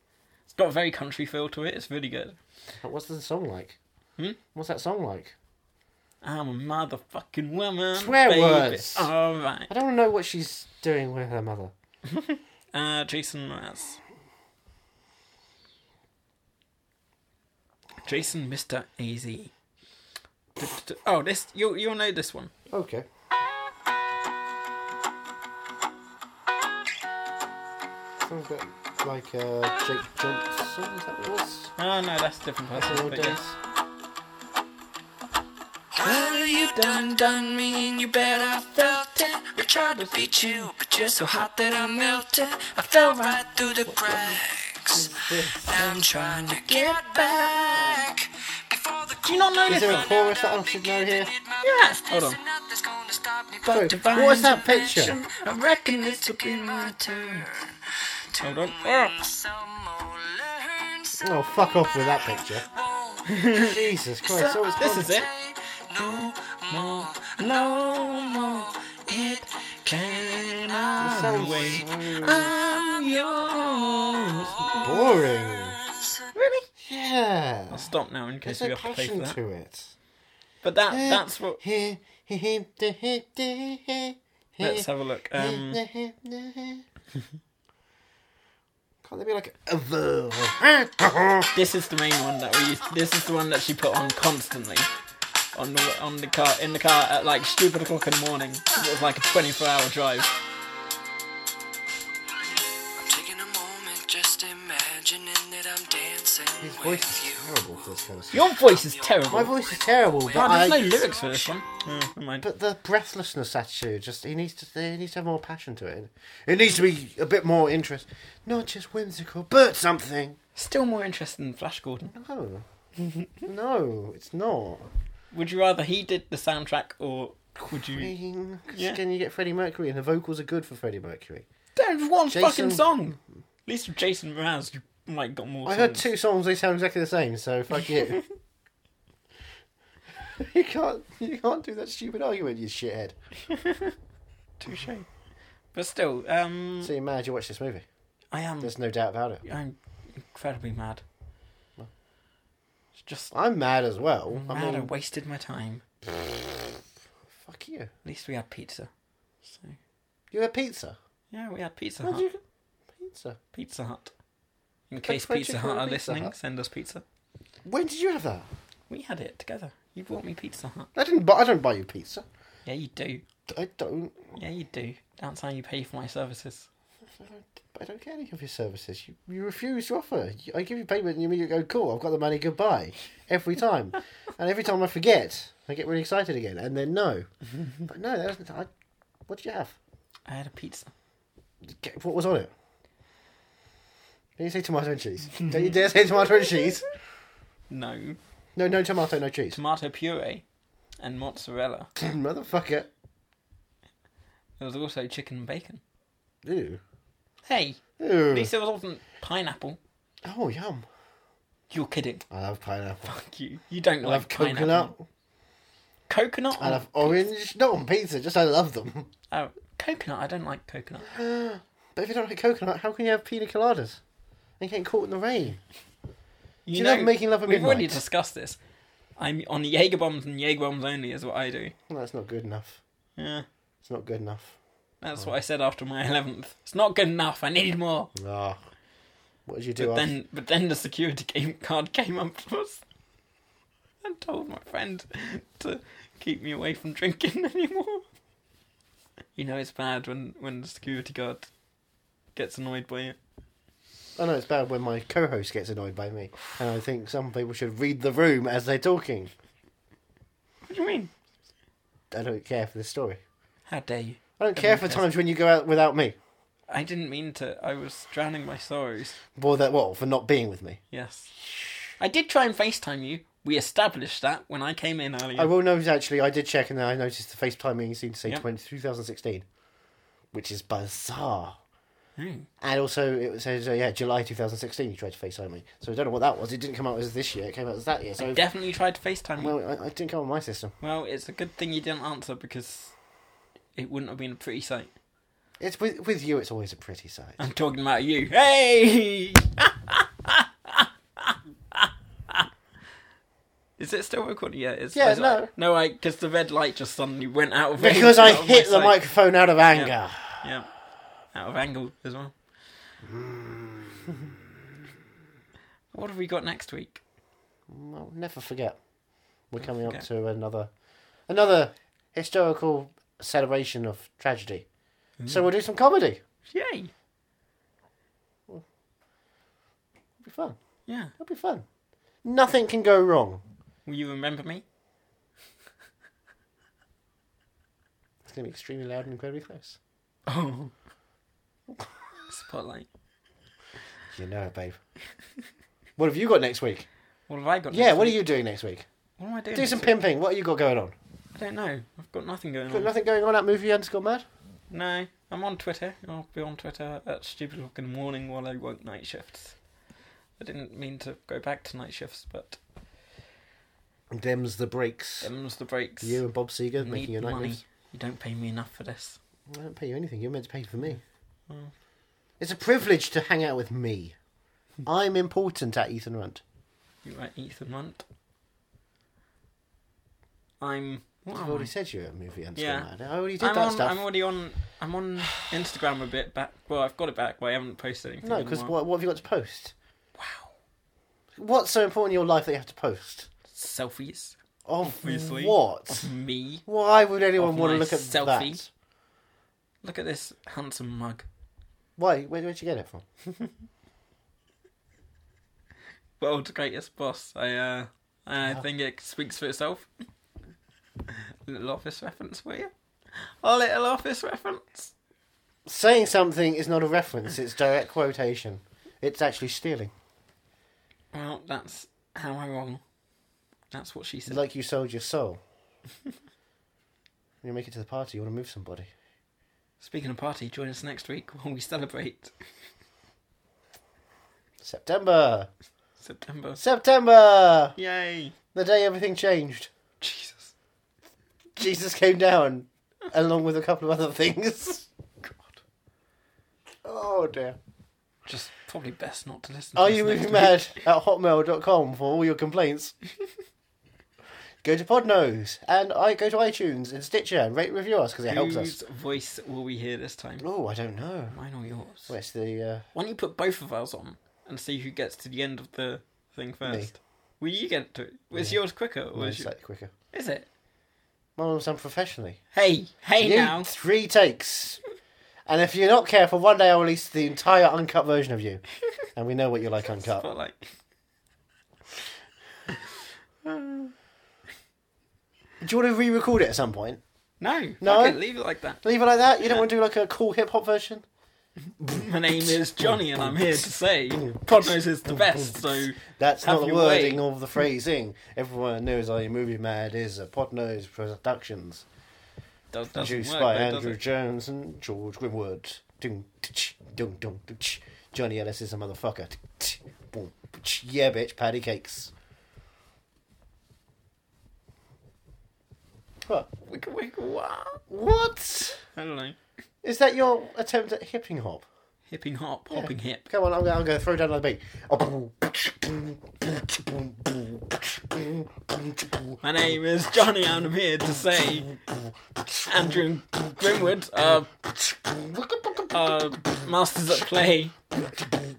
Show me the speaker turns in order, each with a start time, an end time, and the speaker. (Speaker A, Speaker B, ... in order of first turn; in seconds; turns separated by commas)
Speaker A: 0.5-2.4, Speaker B: 2.8-3.8, Speaker B: 4.5-5.3, Speaker A: 6.2-9.7, Speaker B: 7.9-9.1, Speaker B: 9.7-11.7, Speaker A: 12.1-14.0, Speaker A: 18.0-19.5, Speaker A: 20.6-22.5, Speaker B: 22.7-23.1, Speaker B: 28.2-31.7, Speaker A: 31.8-33.4, Speaker B: 32.8-33.5, Speaker C: 35.9-57.7, Speaker A: 36.0-37.2, Speaker A: 38.4-43.9, Speaker B: 43.9-45.7, Speaker A: 45.7-48.1, Speaker A: 49.2-50.1, Speaker B: 49.7-51.3, Speaker A: 51.6-52.4, Speaker A: 53.6-57.5, Speaker B: 53.6-55.2, Speaker C: 58.3-76.3, Speaker A: 58.4-59.1, Speaker B: 61.2-62.6, Speaker A: 63.3-63.8, Speaker B: 63.6-65.1, Speaker A: 64.3-65.3, Speaker A: 66.0-74.9, Speaker B: 71.0-72.5, Speaker B: 74.8-75.8, Speaker A: 76.3-76.7, Speaker B: 76.8-77.9, Speaker A: 77.7-79.4, Speaker B: 78.4-79.9, Speaker A: 80.6-81.6, Speaker B: 80.9-86.8, Speaker A: 84.6-85.8, Speaker B: 89.0-91.5, Speaker A: 91.5-94.9, Speaker A: 95.5-100.3, Speaker C: 103.0-111.7, Speaker B: 106.6-108.5, Speaker A: 108.3-109.5, Speaker B: 109.3-110.9, Speaker A: 110.3-112.5, Speaker B: 112.4-120.4, Speaker A: 120.5-122.1, Speaker B: 122.1-122.7, Speaker B: 123.4-124.8, Speaker A: 125.3-128.1, Speaker B: 127.8-131.4, Speaker A: 128.7-129.0, Speaker A: 131.8-136.1, Speaker B: 132.3-132.9, Speaker B: 135.6-138.2, Speaker B: 140.2-143.2, Speaker A: 143.5-143.9, Speaker A: 144.6-145.1, Speaker A: 145.7-146.9, Speaker B: 146.8-147.8, Speaker A: 148.3-148.7, Speaker B: 148.6-149.4, Speaker A: 149.4-151.0, Speaker A: 153.0-153.3, Speaker B: 153.3-154.9, Speaker A: 154.3-155.8, Speaker B: 156.1-156.8, Speaker B: 157.3-157.9, Speaker A: 158.0-158.9, Speaker A: 159.4-159.8, Speaker B: 160.3-161.0, Speaker A: 161.3-162.2, Speaker B: 162.0-162.4, Speaker B: 162.9-163.4, Speaker A: 163.5-164.1, Speaker A: 164.9-167.0, Speaker B: 165.0-166.3, Speaker B: 167.6-168.5, Speaker A: 168.9-170.9, Speaker B: 170.9-172.2, Speaker A: 172.7-173.2, Speaker B: 173.5-174.3, Speaker A: 174.3-176.7, Speaker B: 177.2-187.3, Speaker B: 187.8-188.7, Speaker B: 189.3-189.7, Speaker A: 190.3-190.9, Speaker B: 191.6-192.5, Speaker B: 194.4-196.8, Speaker A: 197.7-198.2, Speaker B: 198.6-199.6, Speaker A: 199.5-200.4, Speaker A: 201.0-201.9, Speaker B: 202.0-202.9, Speaker A: 204.6-205.8, Speaker B: 206.4-206.8, Speaker A: 207.4-209.8, Speaker B: 208.0-208.5, Speaker B: 210.2-210.9, Speaker A: 211.7-212.2, Speaker B: 212.3-213.2, Speaker A: 213.1-214.9, Speaker B: 214.0-215.1, Speaker A: 216.1-217.2, Speaker B: 216.6-219.1, Speaker A: 219.3-221.1, Speaker B: 221.0-224.0, Speaker B: 224.6-225.6, Speaker A: 226.7-228.6, Speaker B: 226.7-228.0, Speaker A: 229.2-231.7, Speaker B: 231.9-232.8, Speaker A: 233.2-233.4, Speaker B: 233.8-234.6, Speaker A: 235.0-238.1, Speaker B: 238.1-238.6, Speaker B: 239.4-240.1, Speaker A: 239.8-242.8, Speaker A: 244.0-248.0, Speaker A: 249.3-251.5, Speaker A: 252.3-253.2, Speaker B: 254.2-259.3, Speaker A: 260.6-261.1, Speaker B: 262.1-263.2, Speaker A: 263.7-265.0, Speaker B: 264.4-266.1, Speaker A: 266.7-269.2, Speaker B: 269.4-270.8, Speaker A: 270.9-271.3, Speaker B: 271.4-271.9, Speaker A: 272.0-275.5, Speaker B: 275.4-279.4, Speaker B: 280.3-281.6, Speaker A: 282.2-282.5, Speaker B: 282.6-288.4, Speaker A: 288.2-289.5, Speaker B: 289.4-290.7, Speaker A: 290.8-292.9, Speaker A: 293.7-294.9, Speaker B: 295.6-297.4, Speaker A: 297.4-302.5, Speaker A: 303.8-308.9, Speaker B: 304.9-305.5, Speaker B: 307.8-310.5, Speaker A: 309.7-312.4, Speaker B: 313.0-314.4, Speaker A: 315.9-317.0, Speaker B: 317.7-318.8, Speaker B: 319.4-320.7, Speaker A: 319.6-320.0, Speaker B: 321.2-324.7, Speaker A: 325.2-325.5, Speaker B: 325.3-326.2, Speaker A: 326.5-326.9, Speaker B: 330.2-331.6, Speaker A: 330.9-331.1, Speaker B: 332.2-333.4, Speaker A: 333.9-334.6, Speaker B: 338.2-339.8, Speaker A: 340.3-340.7, Speaker A: 342.2-342.9, Speaker B: 344.1-344.8, Speaker B: 346.0-346.9, Speaker A: 347.3-348.2, Speaker B: 347.7-348.9, Speaker A: 349.2-349.9, Speaker B: 349.5-350.9, Speaker A: 351.3-352.9, Speaker B: 352.7-354.2, Speaker A: 354.7-359.6, Speaker A: 360.4-362.6, Speaker B: 364.1-365.3, Speaker A: 365.2-366.2, Speaker B: 366.0-367.6, Speaker A: 366.8-369.2, Speaker B: 369.5-371.0, Speaker B: 372.4-374.1, Speaker B: 374.8-376.4, Speaker A: 377.0-378.0, Speaker A: 380.6-381.7, Speaker B: 381.3-384.0, Speaker A: 382.6-388.7, Speaker B: 388.2-389.7, Speaker A: 390.2-390.5, Speaker B: 391.4-393.3, Speaker A: 393.5-396.6, Speaker B: 394.6-396.1, Speaker B: 396.6-398.7, Speaker A: 397.4-398.6, Speaker A: 399.8-401.2, Speaker B: 402.0-403.1, Speaker A: 406.2-409.9, Speaker A: 411.1-414.9, Speaker B: 415.6-419.9, Speaker A: 421.1-422.8, Speaker A: 423.7-424.4, Speaker B: 424.3-425.4, Speaker B: 427.4-428.9, Speaker A: 429.8-432.3, Speaker B: 434.6-435.5, Speaker A: 436.0-436.6, Speaker B: 436.6-437.8, Speaker A: 437.8-438.3, Speaker B: 438.5-439.7, Speaker A: 440.0-440.5, Speaker B: 441.6-444.9, Speaker A: 445.2-445.5, Speaker B: 446.8-447.6, Speaker A: 448.2-450.7, Speaker B: 449.7-452.9, Speaker B: 454.6-458.8, Speaker A: 458.3-460.4, Speaker B: 460.4-461.4, Speaker A: 461.3-462.1, Speaker B: 462.1-462.9, Speaker A: 462.9-469.5, Speaker B: 466.6-466.9, Speaker B: 468.3-468.6, Speaker B: 469.1-469.9, Speaker A: 470.1-470.5, Speaker B: 471.4-472.4, Speaker A: 472.5-473.7, Speaker B: 473.2-474.8, Speaker B: 475.4-478.6, Speaker B: 479.1-480.3, Speaker A: 479.9-480.7, Speaker A: 483.4-483.9, Speaker B: 485.6-487.0, Speaker A: 487.4-488.8, Speaker B: 487.8-488.2, Speaker B: 488.8-491.0, Speaker A: 491.8-497.2, Speaker B: 492.8-493.4, Speaker B: 494.2-494.5, Speaker B: 495.1-495.4, Speaker B: 496.0-501.9, Speaker A: 502.7-504.0, Speaker B: 502.9-512.1, Speaker A: 516.7-517.8, Speaker B: 517.9-518.8, Speaker A: 518.9-519.4, Speaker B: 519.8-521.6, Speaker A: 522.1-523.3, Speaker B: 522.7-529.3, Speaker A: 529.4-531.8, Speaker A: 532.6-534.5, Speaker B: 534.8-536.1, Speaker A: 535.9-537.8